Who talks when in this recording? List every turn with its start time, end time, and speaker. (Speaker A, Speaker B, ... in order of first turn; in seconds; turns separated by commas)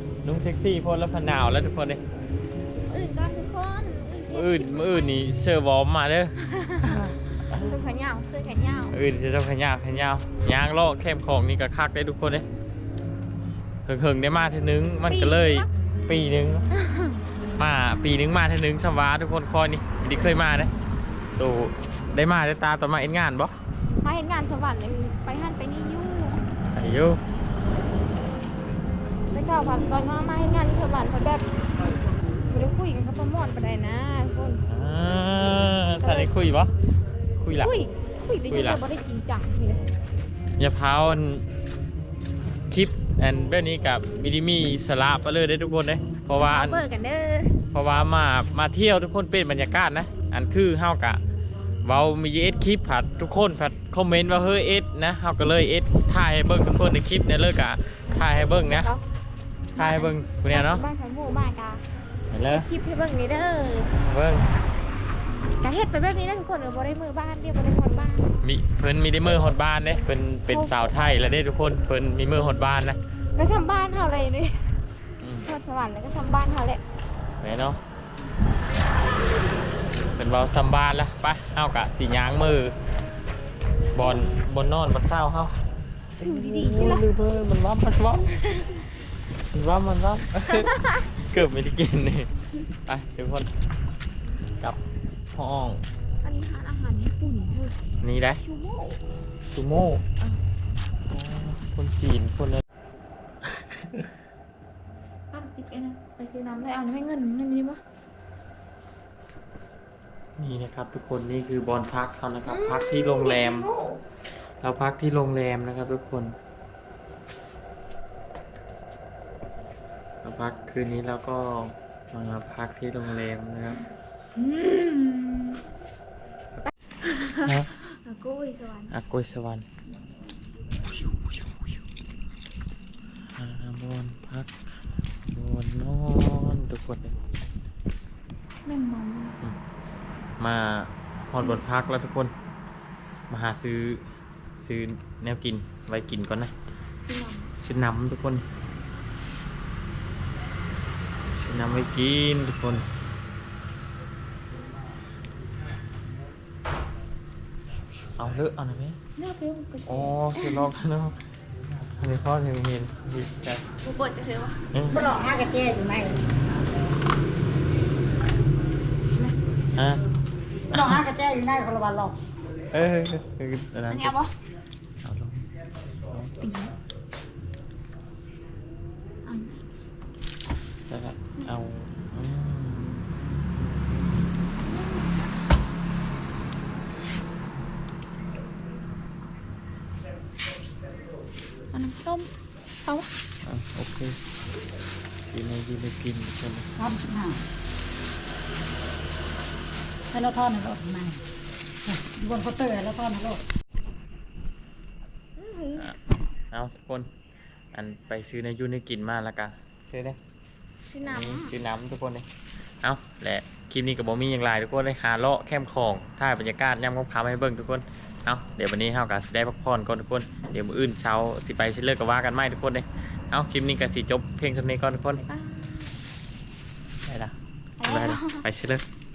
Speaker A: 0.2-2.0, Speaker B: 2.9-5.2, Speaker A: 4.3-7.7, Speaker B: 6.4-8.9, Speaker A: 8.9-12.4, Speaker A: 13.9-16.7, Speaker B: 15.1-15.7, Speaker B: 16.7-17.2, Speaker A: 17.6-20.7, Speaker A: 21.4-23.5, Speaker B: 24.0-26.4, Speaker A: 26.8-27.2, Speaker B: 29.3-31.4, Speaker B: 32.4-34.6, Speaker A: 34.7-36.7, Speaker B: 36.0-36.3, Speaker A: 37.4-37.7, Speaker B: 37.6-39.9, Speaker A: 38.5-38.8, Speaker A: 40.6-41.4, Speaker A: 42.7-46.8, Speaker B: 46.4-47.6, Speaker A: 47.7-51.2, Speaker A: 51.9-58.9, Speaker B: 58.1-59.0, Speaker B: 59.8-61.8, Speaker A: 59.8-60.9, Speaker A: 62.3-62.7, Speaker B: 62.5-63.9, Speaker A: 63.9-64.5, Speaker B: 65.6-68.4, Speaker A: 68.4-73.0, Speaker B: 70.5-70.8, Speaker B: 73.4-74.7, Speaker A: 75.2-75.5, Speaker B: 75.4-76.8, Speaker A: 77.4-77.8, Speaker A: 80.0-82.8, Speaker A: 83.9-85.6, Speaker B: 86.2-87.1, Speaker A: 86.2-88.4, Speaker B: 88.4-88.8, Speaker A: 89.5-92.3, Speaker B: 90.5-91.1, Speaker A: 92.9-93.5, Speaker A: 95.3-95.8, Speaker B: 96.2-97.8, Speaker A: 98.0-98.4, Speaker B: 98.4-99.0, Speaker A: 99.5-100.0, Speaker A: 101.1-102.6, Speaker B: 105.3-107.8, Speaker A: 110.4-113.7, Speaker B: 112.4-114.0, Speaker A: 114.6-116.4, Speaker A: 120.2-123.8, Speaker B: 124.4-125.6, Speaker B: 127.0-129.0, Speaker A: 127.4-127.7, Speaker A: 128.9-129.7, Speaker A: 130.9-131.7, Speaker A: 133.3-134.6, Speaker A: 135.3-137.2, Speaker B: 138.7-139.4, Speaker A: 140.4-142.3, Speaker A: 143.3-144.0, Speaker A: 144.6-146.5, Speaker B: 146.9-147.5, Speaker A: 147.6-148.4, Speaker A: 151.3-152.9, Speaker A: 158.2-159.0, Speaker B: 159.2-160.7, Speaker A: 159.8-161.2, Speaker A: 162.0-163.6, Speaker B: 163.8-164.6, Speaker A: 164.7-165.1, Speaker C: 164.9-166.2, Speaker A: 169.8-170.0, Speaker A: 170.7-171.0, Speaker C: 170.7-172.2, Speaker A: 172.7-174.1, Speaker B: 173.9-174.3, Speaker A: 175.0-175.5, Speaker B: 176.2-176.8, Speaker B: 179.3-179.7, Speaker A: 180.9-183.3, Speaker B: 184.6-185.3, Speaker B: 191.7-192.3, Speaker B: 192.8-193.1, Speaker A: 193.4-194.2, Speaker A: 195.3-196.7, Speaker C: 196.8-197.4, Speaker C: 200.1-201.2, Speaker C: 201.9-203.4, Speaker B: 205.4-205.9, Speaker A: 206.5-207.1, Speaker A: 207.7-210.2, Speaker B: 210.9-211.6, Speaker A: 211.0-212.3, Speaker A: 212.8-225.2, Speaker B: 225.2-225.9, Speaker A: 227.0-228.8, Speaker B: 227.8-228.4